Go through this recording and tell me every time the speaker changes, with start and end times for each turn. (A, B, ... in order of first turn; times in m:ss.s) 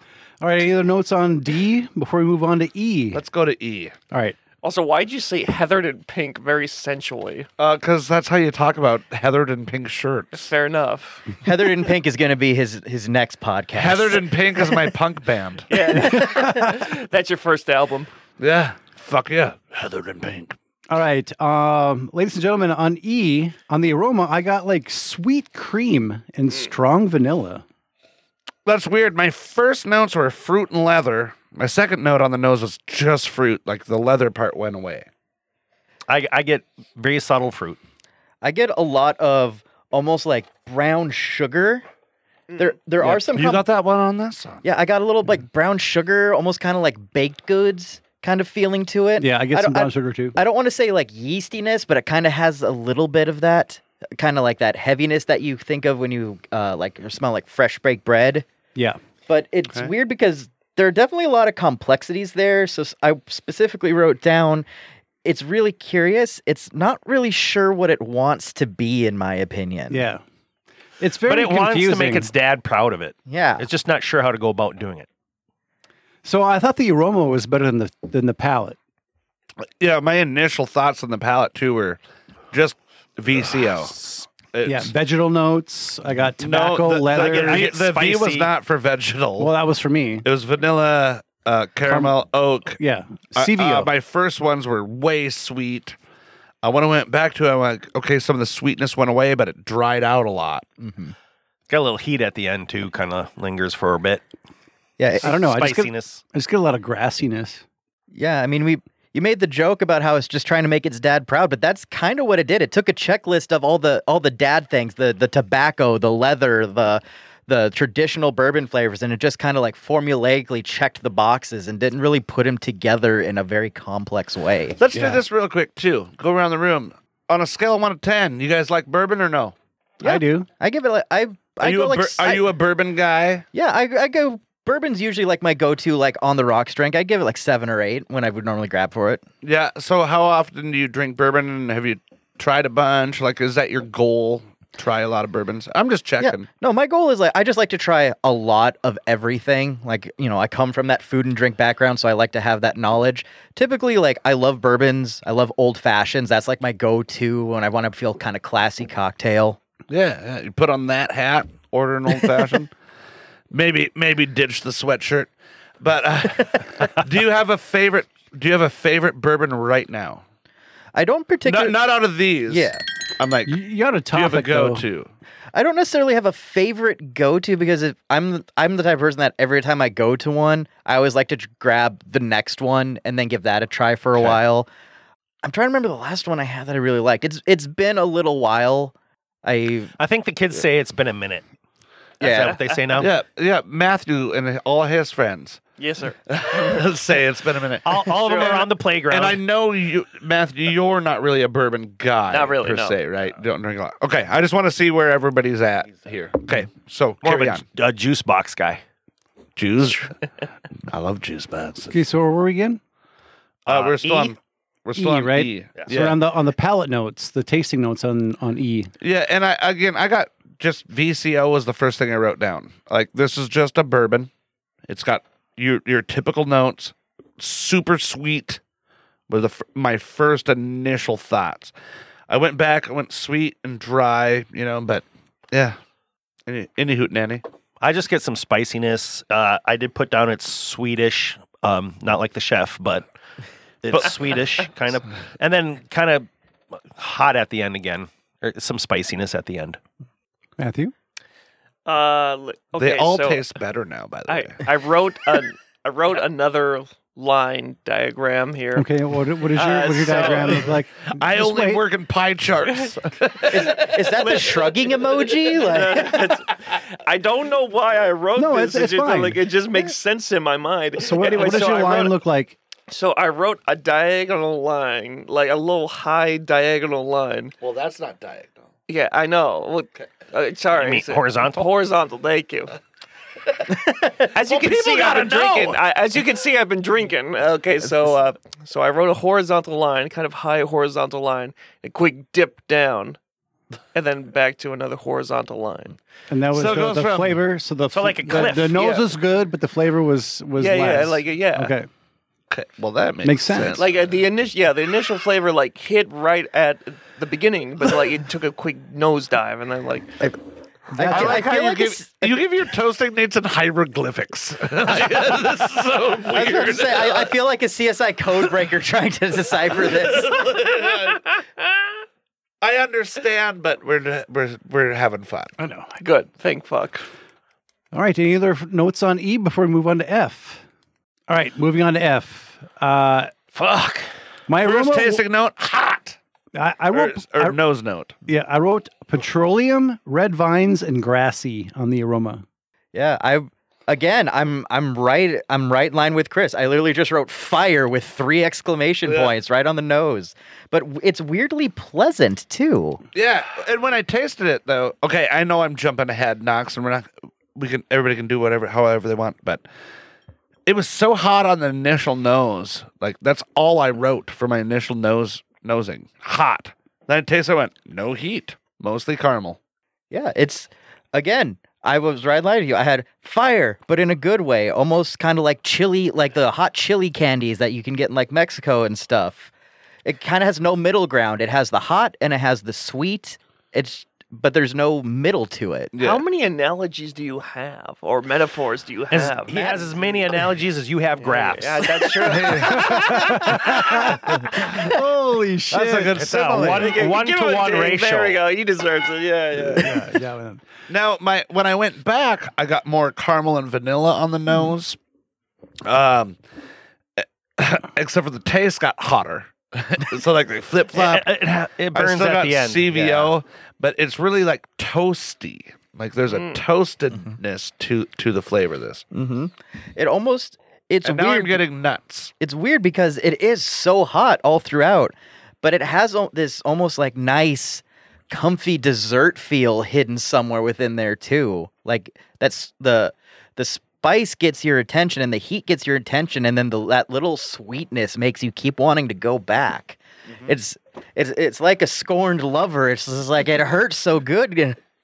0:00.4-0:03.2 A
0:03.1-0:04.0 B
0:04.1-0:04.4 A
0:04.6-0:07.5 C
0:07.6-0:10.5 B
0:10.3-0:11.4 C
0:11.4-0:14.3 D
0:13.8-0:15.7 B
0:15.7-0:18.1 C
0:15.9-0:16.7 A
0:18.4-0:20.6 B
0:20.9-0:27.6 A
0:28.7-0:35.1 B
0:36.1-0:37.8 E
0:38.4-0:41.8 D
0:42.6-0:43.6 D
0:43.1-0:44.6 B
0:44.6-0:58.5 D
0:49.2-0:50.4 A
0:59.3-1:04.7 D
1:05.2-1:10.0 D
1:09.9-1:10.2 A
1:11.0-1:12.3 A
1:11.2-1:15.1 E
1:13.3-1:13.6 D
1:16.2-1:18.8 A
1:19.6-1:22.0 B
1:22.5-1:24.9 B
1:24.6-1:27.7 A
1:26.4-1:29.5 B
1:27.1-1:28.5 E
1:29.4-1:30.3 A
1:30.2-1:32.8 B
1:31.9-1:32.2 A
1:32.8-1:33.9 A
1:33.4-1:36.0 B
1:36.6-1:40.6 B
1:40.8-1:41.2 D
1:41.7-1:44.2 E
1:45.0-1:45.4 D
1:45.2-1:46.2 E
1:45.2-1:47.6 A
1:48.1-2:04.8 D
2:04.8-2:09.6 B
2:04.9-2:05.2 A
2:10.0-2:10.5 A
2:10.0-2:12.5 D
2:11.6-2:13.5 B
2:13.5-2:19.2 D
2:19.4-2:26.5 B
2:26.2-2:39.6 D
2:39.9-2:42.7 B
2:43.5-2:50.2 B
2:51.0-2:51.8 D
2:51.4-2:53.5 B
2:52.5-2:52.8 D
2:53.5-2:54.8 A
2:54.1-2:55.1 B
2:55.5-3:04.7 D
3:05.4-3:09.9 D
3:10.0-3:11.4 E
3:12.2-3:12.6 D
3:12.2-3:13.1 E
3:13.0-3:15.6 B
3:15.8-3:16.8 C
3:16.3-3:18.5 B
3:17.8-3:19.4 E
3:18.2-3:18.7 C
3:19.1-3:27.6 B
3:22.3-3:23.0 C
3:27.2-3:28.8 E
3:29.6-3:30.1 B
3:30.9-3:32.0 B
3:31.9-3:32.8 A
3:33.7-3:36.2 B
3:33.7-3:34.3 E
3:35.0-3:38.9 A
3:39.0-3:44.3 B
3:44.9-3:48.6 B
3:49.3-3:51.7 B
3:52.3-3:55.8 B
3:56.5-3:57.4 B
3:57.8-4:03.0 E
4:03.8-4:06.3 E
4:06.9-4:09.8 E
4:10.6-4:10.9 A
4:11.8-4:13.4 C
4:12.8-4:14.6 B
4:14.3-4:18.9 C
4:18.8-4:21.8 A
4:19.5-4:20.8 C
4:21.1-4:23.9 B
4:22.7-4:22.9 C
4:23.5-4:26.3 D
4:23.7-4:32.2 C
4:28.4-4:29.5 A
4:31.0-4:32.6 A
4:32.9-4:37.5 C
4:37.6-4:38.7 B
4:38.9-4:42.8 C
4:40.7-4:41.7 E
4:44.2-4:53.2 C
4:44.4-4:45.8 B
4:53.9-4:56.0 C
4:56.3-5:01.9 A
4:56.5-4:57.4 B
4:57.9-4:58.9 E
4:58.6-4:59.1 C
5:00.6-5:01.7 C
5:02.5-5:03.9 B
5:03.2-5:03.8 A
5:03.7-5:10.2 C
5:10.9-5:11.4 A
5:11.0-5:12.1 D
5:11.1-5:17.3 B
5:16.3-5:20.4 D
5:19.7-5:21.2 B
5:22.6-5:25.5 B
5:25.6-5:26.0 A
5:26.0-5:27.1 C
5:27.9-5:30.6 A
5:31.3-5:33.3 A
5:33.6-5:34.1 E
5:34.5-5:35.2 A
5:34.6-5:36.2 B
5:36.6-5:37.6 A
5:36.9-5:38.2 B
5:38.3-5:42.4 A
5:42.9-5:53.0 D
5:49.0-5:49.4 B
5:53.1-5:59.6 B
6:00.7-6:09.6 B
6:10.1-6:19.5 D
6:20.0-6:26.0 D
6:25.9-6:26.2 B
6:26.0-6:29.7 C
6:29.1-6:32.7 E
6:29.5-6:30.2 D
6:31.2-6:33.5 C
6:32.3-6:33.4 B
6:32.5-6:36.3 A
6:35.7-6:37.0 B
6:36.0-6:38.4 E
6:36.7-6:40.1 C
6:39.8-6:40.6 A
6:40.9-6:45.0 B
6:45.8-6:46.4 B
6:47.2-6:51.3 B
6:50.9-6:53.3 E
6:51.9-6:59.0 B
6:56.4-6:56.6 C
6:59.1-7:01.6 D
7:01.0-7:02.3 B
7:02.4-7:24.8 D